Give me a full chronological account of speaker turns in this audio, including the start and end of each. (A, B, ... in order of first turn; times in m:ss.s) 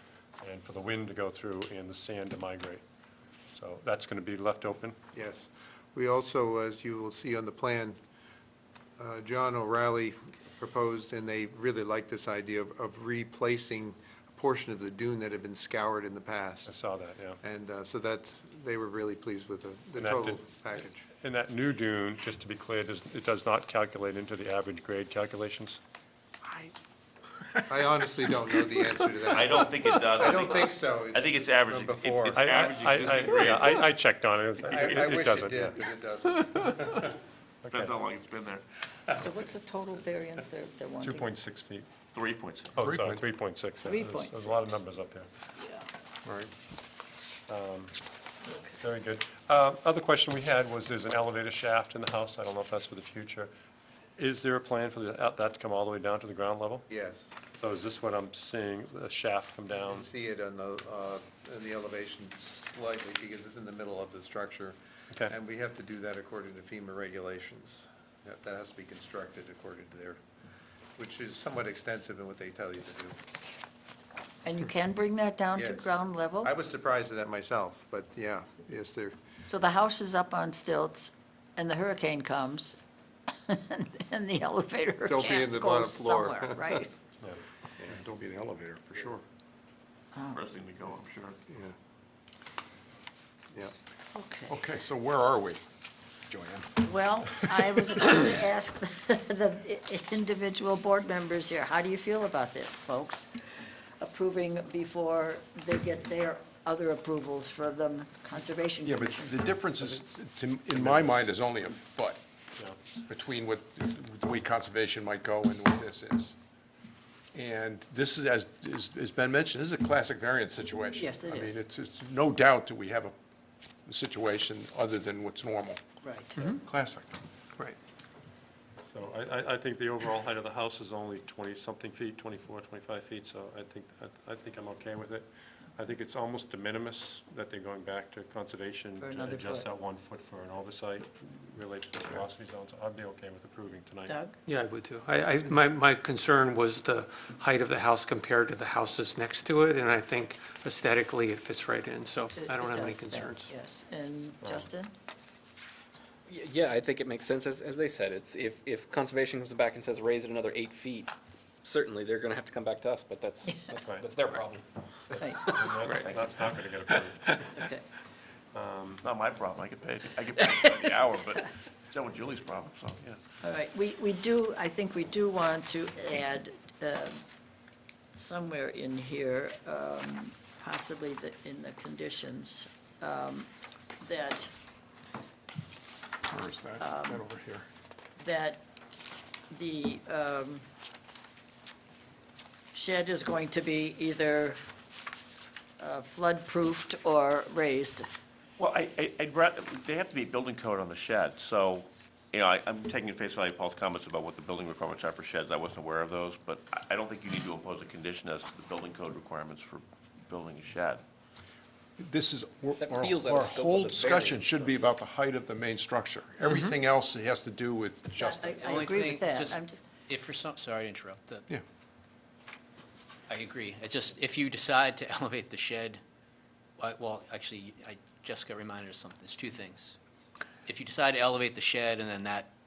0:00.4-0:02.8 A
0:03.5-0:05.0 A
0:05.1-0:08.0 B
0:09.0-0:16.7 B
0:16.6-0:17.4 A
0:17.4-0:21.0 B
0:20.0-0:25.8 A
0:26.4-0:26.7 B
0:27.7-0:33.4 B
0:29.3-0:33.8 C
0:32.3-0:35.8 A
0:34.7-0:37.2 B
0:37.6-0:37.9 A
0:37.7-0:39.1 C
0:39.2-0:41.3 D
0:41.0-0:41.9 A
0:42.1-0:42.8 C
0:42.8-0:45.3 A
0:42.8-0:43.2 E
0:43.8-0:44.8 D
0:45.6-0:45.8 D
0:46.2-0:46.5 E
0:47.5-0:47.9 A
0:48.8-0:53.5 A
0:54.2-0:56.8 A
0:56.9-0:57.3 B
0:57.6-1:00.1 A
0:59.7-1:10.2 B
1:11.0-1:13.2 B
1:14.4-1:16.5 D
1:15.5-1:19.1 B
1:19.5-1:22.8 D
1:23.3-1:26.9 D
1:25.1-1:26.8 B
1:27.8-1:29.2 E
1:30.1-1:30.4 D
1:30.3-1:31.4 C
1:31.5-1:31.7 B
1:34.1-1:34.6 D
1:34.5-1:35.6 E
1:36.3-1:36.7 E
1:36.8-1:43.3 D
1:44.0-1:49.4 D
1:48.8-1:52.2 E
1:50.7-1:51.3 A
1:53.1-1:56.3 E
1:57.3-2:03.1 E
2:01.0-2:01.6 D
2:03.9-2:05.8 E
2:06.0-2:06.5 D
2:06.5-2:07.1 E
2:08.9-2:24.2 A
2:19.0-2:19.7 D
2:24.0-2:24.4 D
2:24.4-2:33.5 F
2:32.4-2:34.9 D
2:34.4-2:34.7 A
2:36.3-2:41.1 G
2:41.6-2:46.1 G
2:43.4-2:43.7 D
2:43.8-2:44.5 A
2:45.1-2:47.4 A
2:45.1-2:45.5 D
2:45.8-2:46.3 C
2:47.5-2:47.8 D
2:48.5-2:49.0 A
2:49.0-2:53.2 C
2:50.3-2:51.5 D
2:53.4-2:57.2 D
2:58.2-3:04.5 D
3:06.3-3:07.7 E
3:06.8-3:07.2 D
3:08.2-3:08.6 D
3:09.5-3:10.6 D
3:12.7-3:14.6 D
3:15.8-3:18.1 D
3:18.6-3:31.0 C
3:32.0-3:38.9 E
3:32.8-3:34.7 G
3:38.1-3:39.8 D
3:38.6-3:41.5 H
3:43.3-3:46.0 H
3:46.8-3:50.0 H
3:50.7-3:52.5 H